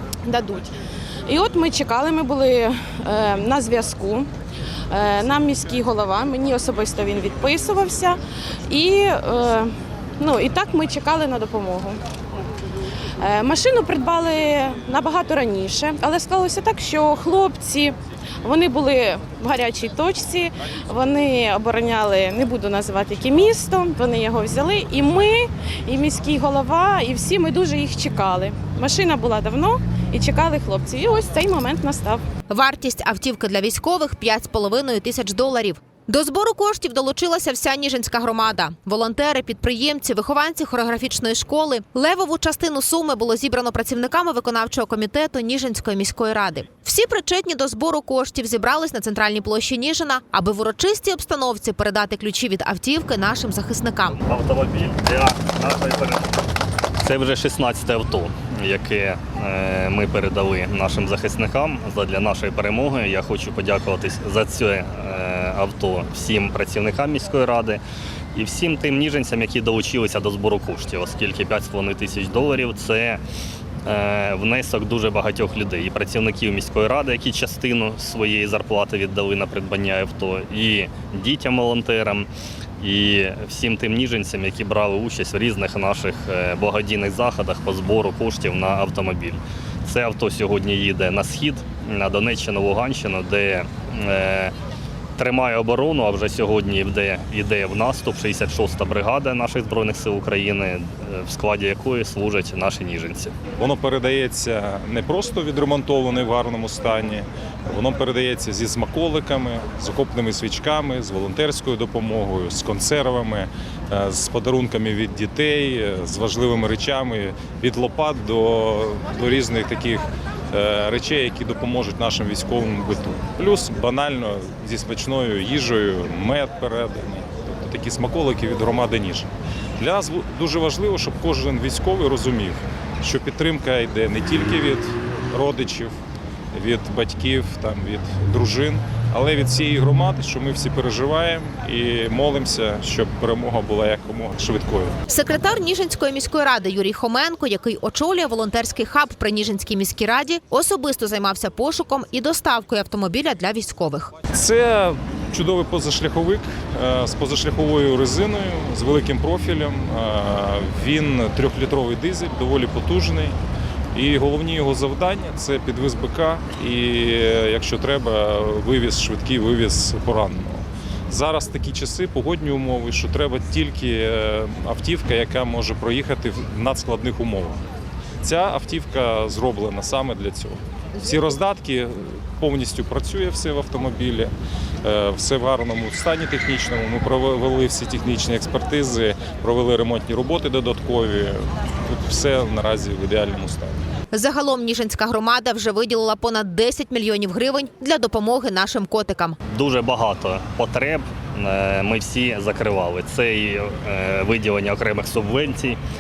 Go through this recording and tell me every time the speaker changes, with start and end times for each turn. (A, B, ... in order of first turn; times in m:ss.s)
0:00.2-0:00.7 A
0:01.3-0:04.3 A
0:04.9-0:12.0 A
0:13.2-0:32.2 A
0:32.5-0:54.2 B
0:54.2-0:56.3 C
0:57.0-1:07.8 C
1:08.3-1:13.2 C
1:13.8-1:22.3 C
1:22.8-1:34.5 C
1:35.2-1:43.3 C
1:43.6-2:09.3 D
2:09.8-2:16.0 D
2:16.5-2:24.9 D
2:25.1-2:34.1 B
2:34.3-2:43.3 D
2:43.9-2:57.6 D
2:58.2-3:04.3 D
3:04.8-3:13.8 D
3:14.1-3:19.4 B
3:19.5-3:25.8 C